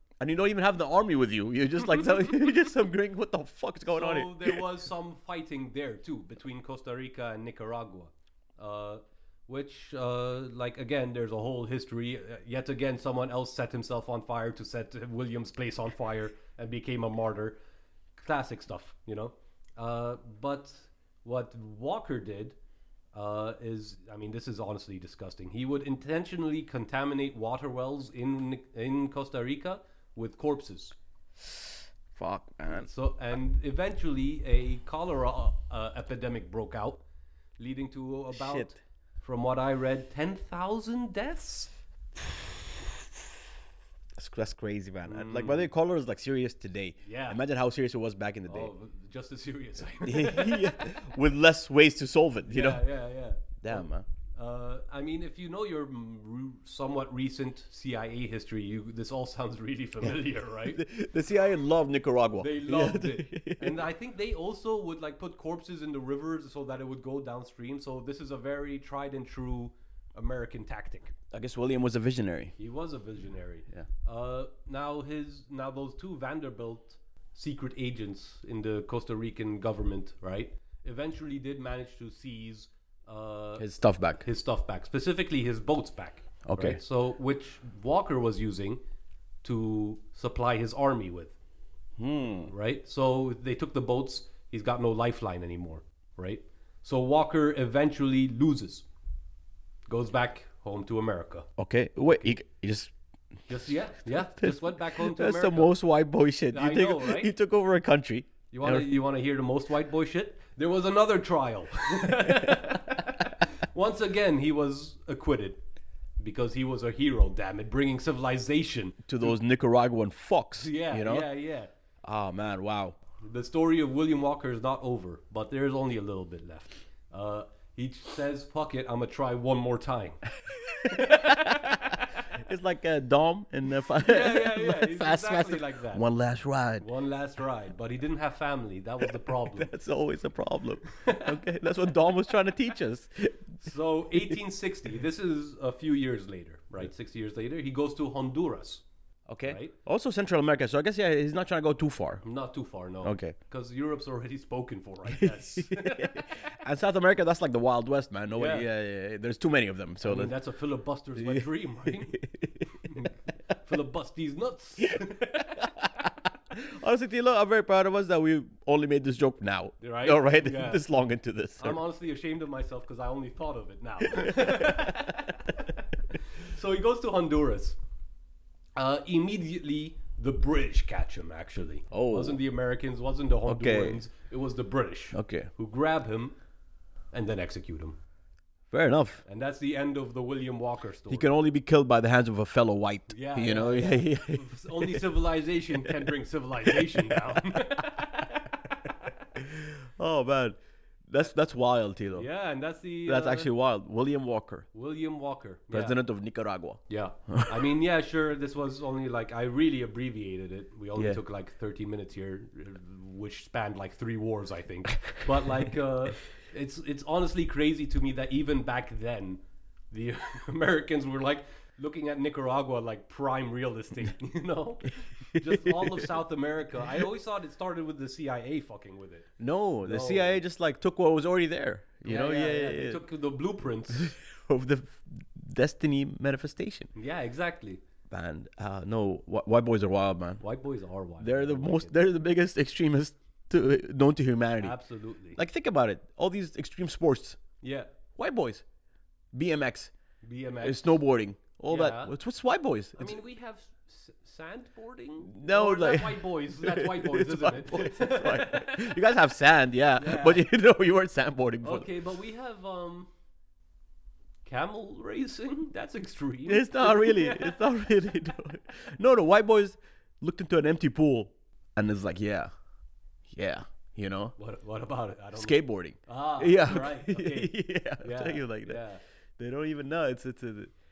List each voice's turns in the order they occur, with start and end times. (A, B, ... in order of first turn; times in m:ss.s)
0:00.2-0:04.6 A
0:03.9-0:17.6 B
0:18.2-0:22.6 B
0:23.1-0:31.0 B
0:32.1-0:32.9 A
0:32.7-0:37.0 B
0:37.6-0:41.7 B
0:38.3-0:38.8 A
0:44.2-0:48.7 A
0:45.0-0:45.7 B
0:47.0-0:47.4 B
0:48.5-0:50.8 B
0:50.0-0:52.9 A
0:52.5-1:00.8 B
0:53.6-0:54.0 A
1:00.7-1:03.8 A
1:02.4-1:11.1 B
1:11.3-1:12.6 A
1:12.6-1:28.8 B
1:23.6-1:24.2 A
1:26.4-1:26.8 A
1:29.4-1:31.3 B
1:32.0-1:32.5 A
1:32.5-1:38.8 B
1:39.9-1:41.5 B
1:41.6-1:42.9 A
1:43.5-1:45.8 B
1:44.4-1:49.0 A
1:46.5-1:47.3 B
1:48.5-1:55.6 B
1:52.1-1:52.7 A
1:56.2-1:59.3 B
1:59.0-2:01.3 A
2:00.6-2:01.7 B
2:02.0-2:03.0 A
2:03.2-2:10.2 B
2:10.7-2:16.8 A
2:10.9-2:12.0 B
2:14.0-2:16.0 B
2:16.8-2:19.7 B
2:19.5-2:23.6 A
2:21.0-2:21.2 B
2:23.6-2:28.8 B
2:24.1-2:24.4 A
2:29.3-2:32.2 A
2:29.4-2:29.7 B
2:32.2-2:36.3 B
2:33.0-2:33.3 A
2:35.2-2:40.4 A
2:38.3-2:38.7 B
2:40.0-2:45.7 B
2:41.1-2:42.7 A
2:44.8-2:51.8 A
2:49.8-2:50.8 B
2:51.6-2:57.8 B
2:54.3-2:55.0 A
2:58.8-3:06.4 B
3:01.9-3:02.4 A
3:03.5-3:04.0 A
3:05.1-3:05.5 A
3:07.1-3:08.0 B
3:08.7-3:09.2 A
3:09.2-3:11.3 B
3:11.1-3:15.1 A
3:13.1-3:19.1 B
3:16.6-3:17.4 A
3:19.4-3:22.3 A
3:22.2-3:23.5 B
3:23.0-3:24.7 A
3:24.7-3:26.0 B
3:25.7-3:27.6 A
3:26.9-3:49.3 B
3:30.9-3:31.2 A
3:45.3-3:46.2 A
3:49.4-3:53.0 A
3:49.8-3:50.4 B
3:52.0-3:54.1 B
3:53.9-3:56.9 A
3:56.9-3:57.8 B
3:58.1-4:00.4 A
4:00.4-4:02.0 B
4:01.2-4:04.8 A
4:04.6-4:05.4 B
4:05.3-4:07.4 A
4:07.6-4:07.9 B
4:08.2-4:08.6 A
4:09.3-4:09.9 A
4:10.2-4:11.0 B
4:10.6-4:13.2 A
4:11.7-4:12.1 B
4:13.0-4:19.0 B
4:15.2-4:22.0 A
4:20.0-4:20.4 B
4:21.6-4:23.1 B
4:24.4-4:27.6 B
4:26.4-4:32.5 A
4:33.3-4:34.4 A
4:34.4-4:39.0 B
4:35.3-4:38.8 A
4:39.4-4:40.7 A